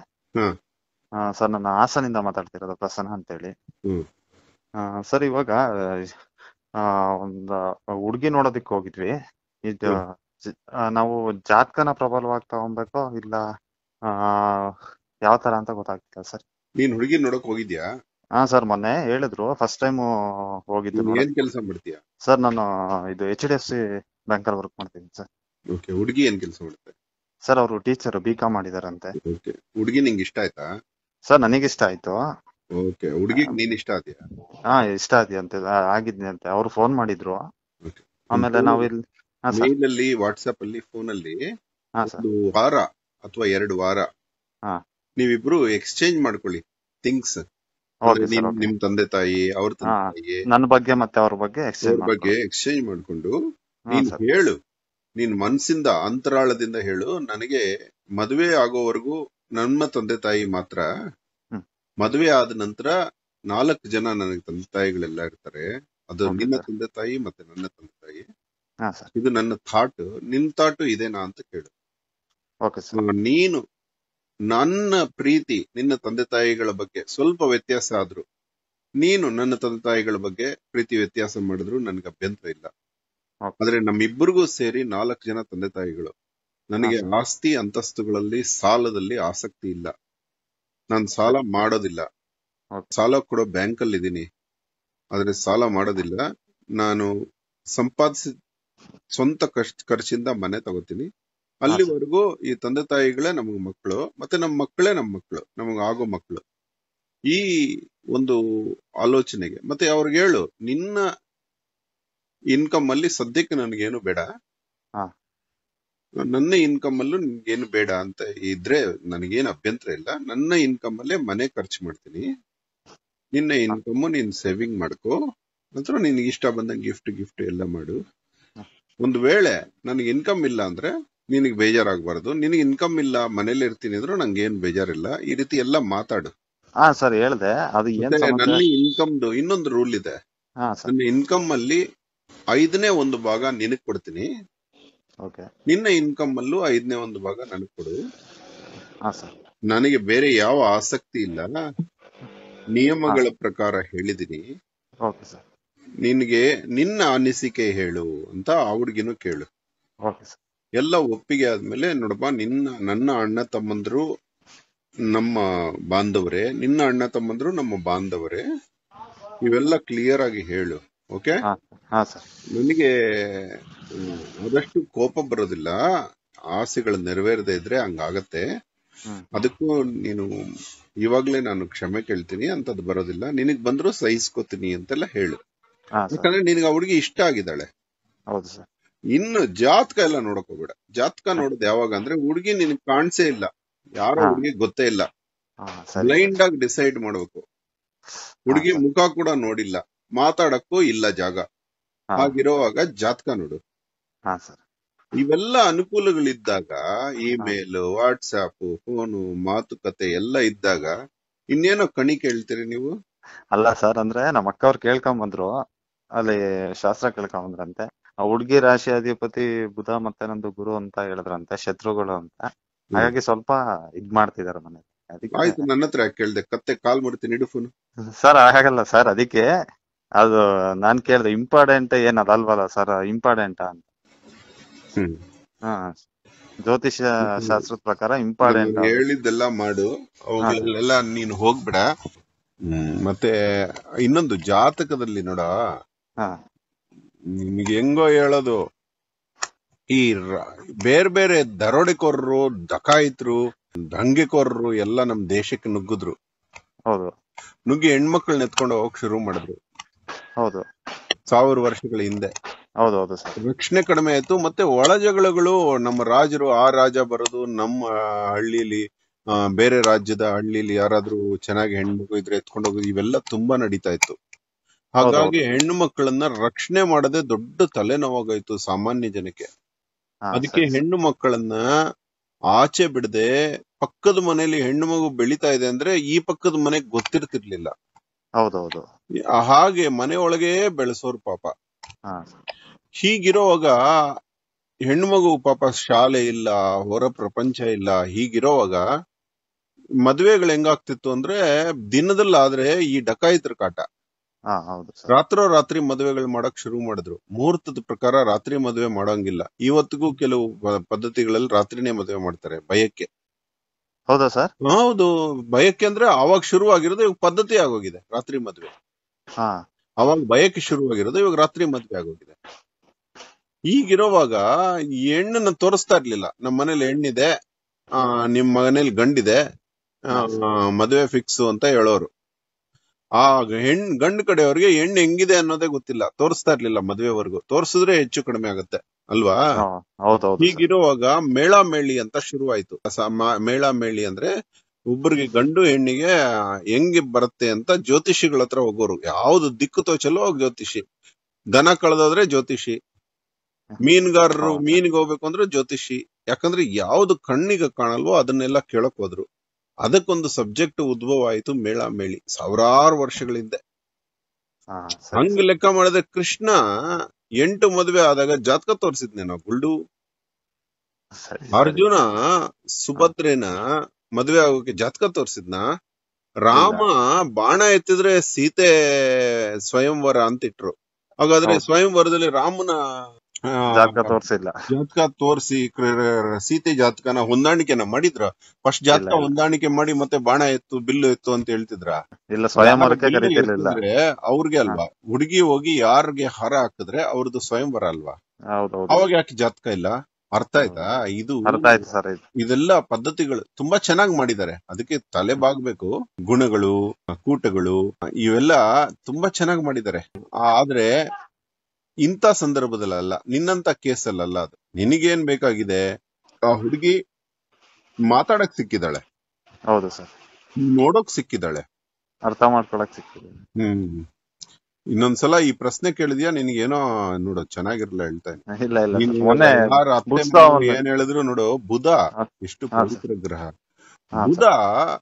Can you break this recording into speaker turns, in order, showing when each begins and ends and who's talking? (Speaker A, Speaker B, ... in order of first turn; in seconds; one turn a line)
Speaker A: 1.4-3.5
Speaker A: 4.8-6.1
Speaker A: 6.8-9.1
Speaker A: 9.7-13.4
Speaker A: 14.1-14.8
Speaker A: 15.3-16.4
Speaker B: 16.8-17.8
Speaker A: 18.4-20.1
Speaker A: 20.7-21.3
Speaker B: 21.0-22.0
Speaker A: 22.3-23.8
Speaker A: 24.3-25.2
Speaker B: 25.8-26.9
Speaker A: 27.5-29.1
Speaker B: 29.3-30.6
Speaker A: 31.3-32.1
Speaker B: 32.8-34.2
Speaker A: 34.8-37.4
Speaker B: 37.9-38.9
Speaker A: 38.4-39.0
Speaker B: 39.5-41.4
Speaker B: 42.0-44.0
Speaker B: 45.2-47.4
Speaker A: 48.1-48.7
Speaker B: 48.1-50.4
Speaker A: 50.0-52.3
Speaker B: 51.8-53.3
Speaker A: 53.9-54.2
Speaker B: 54.0-54.5
Speaker B: 55.2-57.6
Speaker B: 58.2-60.8
Speaker B: 62.0-62.9
Speaker B: 63.5-68.2
Speaker A: 66.3-66.6
Speaker B: 69.2-71.7
Speaker A: 72.7-73.0
Speaker B: 73.0-73.6
Speaker B: 74.5-78.2
Speaker B: 79.0-82.7
Speaker B: 83.6-86.1
Speaker B: 86.7-89.9
Speaker B: 90.9-92.0
Speaker B: 92.9-94.2
Speaker B: 95.1-96.2
Speaker B: 96.8-97.1
Speaker B: 97.8-98.3
Speaker B: 99.2-101.1
Speaker B: 101.7-106.4
Speaker B: 109.0-111.0
Speaker B: 112.5-114.2
Speaker B: 116.3-122.2
Speaker B: 123.4-125.2
Speaker B: 125.8-128.0
Speaker B: 129.0-136.3
Speaker A: 136.9-138.6
Speaker B: 138.0-140.1
Speaker B: 140.9-141.8
Speaker B: 142.6-144.3
Speaker B: 145.7-147.9
Speaker B: 149.7-151.4
Speaker B: 152.8-154.4
Speaker A: 155.1-155.4
Speaker B: 156.1-159.5
Speaker A: 160.1-160.4
Speaker B: 160.8-164.0
Speaker B: 165.1-168.4
Speaker B: 169.4-171.4
Speaker A: 171.5-172.2
Speaker B: 172.6-172.9
Speaker B: 174.0-175.8
Speaker B: 176.6-178.4
Speaker B: 179.4-180.3
Speaker B: 181.1-185.4
Speaker A: 186.0-186.3
Speaker B: 186.1-187.7
Speaker A: 188.3-188.7
Speaker B: 189.2-193.5
Speaker B: 194.0-195.1
Speaker A: 195.7-196.4
Speaker B: 196.0-197.4
Speaker A: 198.5-198.8
Speaker B: 198.5-201.4
Speaker B: 202.2-203.6
Speaker A: 204.3-204.6
Speaker B: 205.2-210.9
Speaker B: 211.6-212.9
Speaker A: 213.6-215.5
Speaker A: 216.2-222.4
Speaker A: 223.0-225.7
Speaker B: 225.4-227.7
Speaker A: 228.2-229.4
Speaker A: 230.2-233.9
Speaker A: 235.7-235.9
Speaker A: 236.7-239.0
Speaker B: 237.3-237.6
Speaker B: 238.4-241.8
Speaker B: 242.7-243.3
Speaker B: 244.1-245.5
Speaker B: 247.5-248.6
Speaker B: 249.9-250.2
Speaker B: 250.9-253.4
Speaker B: 254.0-256.1
Speaker B: 257.7-259.6
Speaker B: 261.3-262.3
Speaker A: 262.8-263.4
Speaker B: 263.4-267.8
Speaker B: 268.4-268.8
Speaker B: 269.6-274.2
Speaker B: 275.0-279.4
Speaker A: 275.0-275.4
Speaker A: 280.3-280.8
Speaker B: 280.4-281.6
Speaker B: 282.5-283.3
Speaker B: 283.8-287.7
Speaker A: 288.4-288.8
Speaker B: 289.4-291.5
Speaker A: 292.1-292.4
Speaker B: 293.0-293.7
Speaker B: 294.9-298.8
Speaker B: 300.1-301.4
Speaker B: 301.9-303.8
Speaker A: 304.5-305.1
Speaker B: 305.1-313.1
Speaker A: 314.1-314.5
Speaker B: 314.7-318.7
Speaker B: 320.0-322.4
Speaker B: 323.7-324.4
Speaker B: 325.1-327.3
Speaker B: 328.0-329.4
Speaker B: 330.2-332.1
Speaker B: 333.2-339.4
Speaker A: 339.6-340.6
Speaker B: 340.4-344.3
Speaker B: 344.9-346.1
Speaker B: 346.8-350.8
Speaker B: 351.6-352.8
Speaker B: 353.8-359.2
Speaker A: 354.4-354.8
Speaker B: 359.9-363.6
Speaker A: 364.7-365.4
Speaker B: 365.1-366.6
Speaker B: 367.4-369.7
Speaker A: 371.2-371.8
Speaker B: 371.6-372.1
Speaker B: 372.8-373.5
Speaker B: 374.2-375.6
Speaker B: 376.5-378.7
Speaker A: 376.5-376.9
Speaker B: 379.7-380.7
Speaker B: 381.2-382.8
Speaker B: 383.6-384.1
Speaker A: 383.7-384.5
Speaker B: 384.7-392.0
Speaker A: 388.9-389.3
Speaker A: 392.4-393.8
Speaker B: 392.6-398.2
Speaker A: 398.6-399.1
Speaker B: 398.9-401.8
Speaker A: 401.5-402.2
Speaker B: 402.4-406.7
Speaker B: 407.2-410.9
Speaker B: 412.1-415.8
Speaker B: 416.5-416.9
Speaker B: 418.1-419.0
Speaker A: 419.7-420.1
Speaker B: 420.7-421.6
Speaker A: 422.3-423.4
Speaker B: 423.6-424.0
Speaker B: 424.9-428.4
Speaker A: 428.6-430.8
Speaker B: 429.0-433.5
Speaker A: 434.2-434.4
Speaker B: 434.2-434.6